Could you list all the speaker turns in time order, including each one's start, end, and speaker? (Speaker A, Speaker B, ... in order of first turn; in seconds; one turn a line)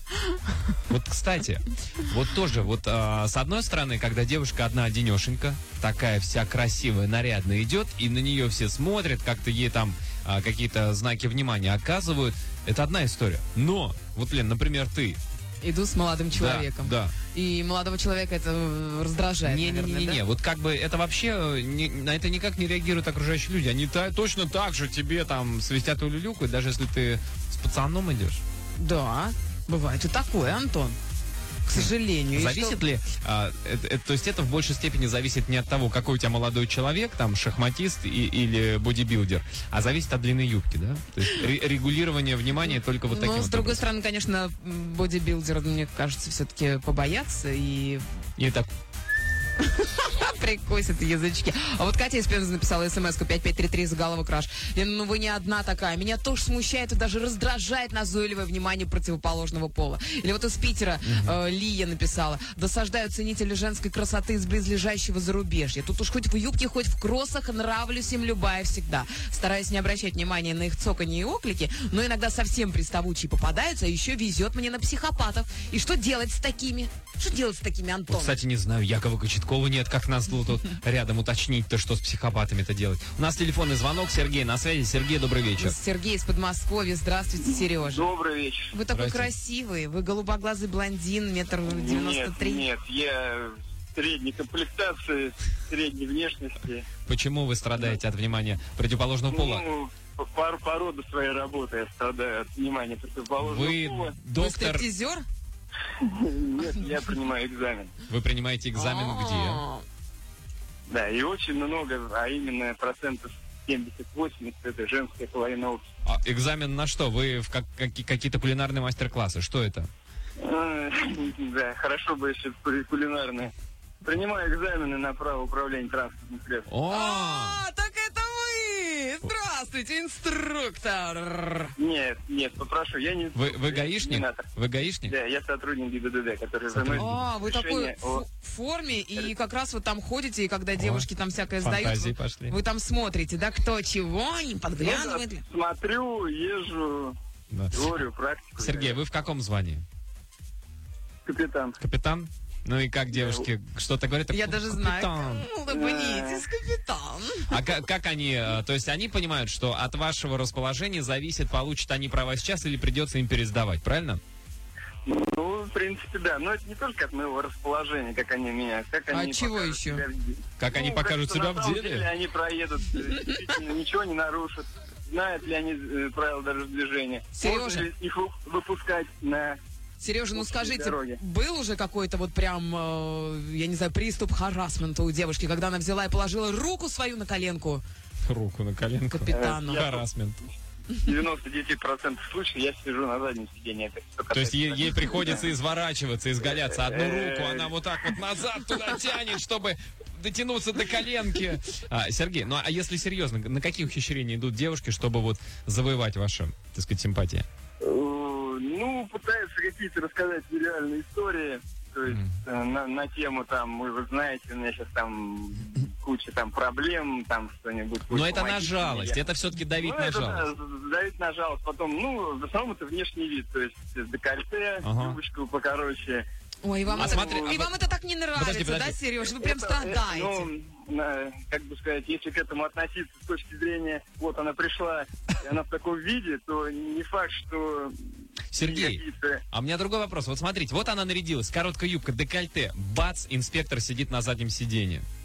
Speaker A: 0.9-15.2
Speaker B: 15.6-20.2
Speaker A: 16.3-17.1
Speaker A: 19.4-28.4
Speaker B: 28.8-31.0
Speaker B: 31.6-32.8
Speaker A: 31.7-43.8
Speaker B: 43.1-48.0
Speaker A: 48.4-48.7
Speaker B: 49.6-78.3
Speaker A: 61.0-61.3
Speaker A: 78.1-85.8
Speaker B: 85.6-88.1
Speaker C: 87.8-88.7
Speaker B: 88.7-92.7
Speaker A: 88.9-89.3
Speaker C: 91.6-96.9
Speaker A: 97.0-99.7
Speaker C: 99.3-104.2
Speaker A: 103.4-104.9
Speaker B: 104.3-105.2
Speaker C: 106.0-107.9
Speaker A: 108.1-109.6
Speaker B: 108.7-109.8
Speaker C: 110.9-115.8
Speaker A: 116.0-119.9
Speaker C: 120.4-123.5
Speaker C: 124.0-126.7
Speaker A: 126.7-127.6
Speaker B: 126.9-131.7
Speaker C: 131.8-134.5
Speaker A: 133.3-135.1
Speaker C: 135.1-138.2
Speaker A: 136.7-137.3
Speaker B: 136.9-145.4
Speaker A: 140.8-142.6
Speaker C: 144.8-147.2
Speaker A: 147.5-148.0
Speaker C: 147.7-149.0
Speaker A: 148.6-149.8
Speaker C: 151.2-151.8
Speaker A: 151.8-155.5
Speaker C: 153.1-153.4
Speaker B: 154.3-157.5
Speaker C: 155.7-156.4
Speaker A: 157.5-164.2
Speaker C: 165.1-179.6
Speaker B: 169.1-170.0
Speaker A: 170.6-172.1
Speaker B: 177.3-177.9
Speaker B: 180.0-187.8
Speaker C: 180.3-181.2
Speaker A: 188.2-190.4
Speaker B: 189.1-189.9
Speaker C: 189.3-190.0
Speaker C: 191.0-195.4
Speaker A: 194.3-207.4
Speaker C: 196.4-197.7
Speaker C: 207.8-219.2
Speaker A: 212.1-212.3
Speaker A: 218.1-220.5
Speaker C: 219.7-226.2
Speaker A: 224.8-225.2
Speaker B: 226.6-230.5
Speaker C: 226.9-227.6
Speaker A: 227.0-227.8
Speaker A: 228.3-229.0
Speaker C: 229.4-239.4
Speaker A: 238.5-245.1